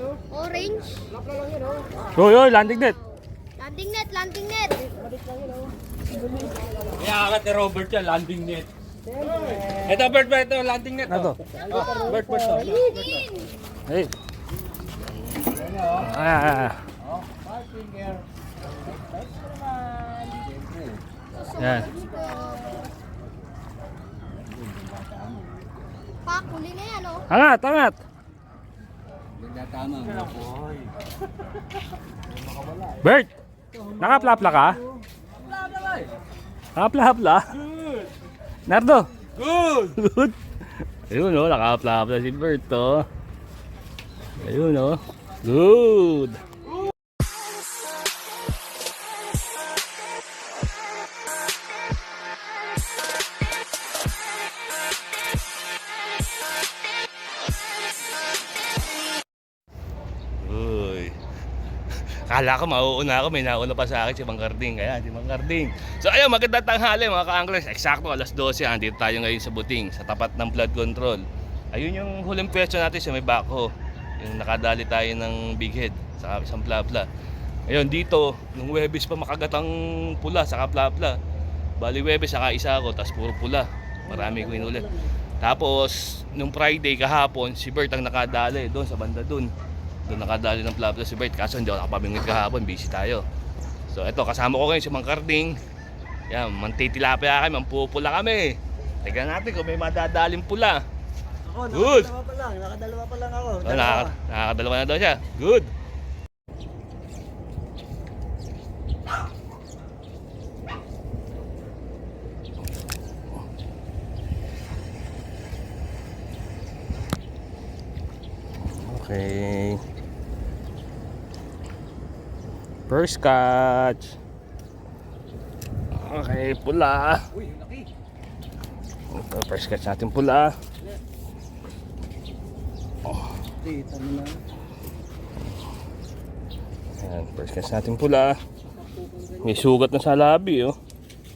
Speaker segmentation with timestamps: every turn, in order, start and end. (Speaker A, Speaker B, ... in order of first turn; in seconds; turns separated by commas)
Speaker A: 0.3-1.1, Speaker B: 2.1-3.0, Speaker A: 2.5-4.9, Speaker C: 7.1-8.7, Speaker C: 10.2-10.9, Speaker B: 10.9-11.4, Speaker D: 11.5-12.6, Speaker A: 11.7-13.5, Speaker B: 13.9-14.1, Speaker B: 15.9-16.8, Speaker A: 21.3-22.9, Speaker B: 21.6-21.9, Speaker A: 26.2-27.3, Speaker B: 27.3-28.0, Speaker B: 32.9-33.3, Speaker D: 33.7-35.0, Speaker B: 34.0-34.8, Speaker B: 36.8-37.6, Speaker B: 38.7-40.4, Speaker B: 41.1-43.1, Speaker B: 44.4-46.4, Speaker B: 60.4-61.1, Speaker B: 62.0-77.1, Speaker B: 77.7-81.2, Speaker B: 81.8-84.8, Speaker D: 84.0-85.1, Speaker B: 85.4-89.5, Speaker B: 90.1-93.2, Speaker B: 93.9-95.6, Speaker B: 96.3-100.8, Speaker D: 101.5-104.2, Speaker B: 101.7-102.1, Speaker B: 103.7-105.7, Speaker B: 118.7-119.8, Speaker B: 122.9-124.2, Speaker B: 125.9-127.2, Speaker B: 129.1-130.5, Speaker D: 133.6-134.4, Speaker B: 137.0-138.4, Speaker D: 138.8-139.7, Speaker B: 139.4-140.8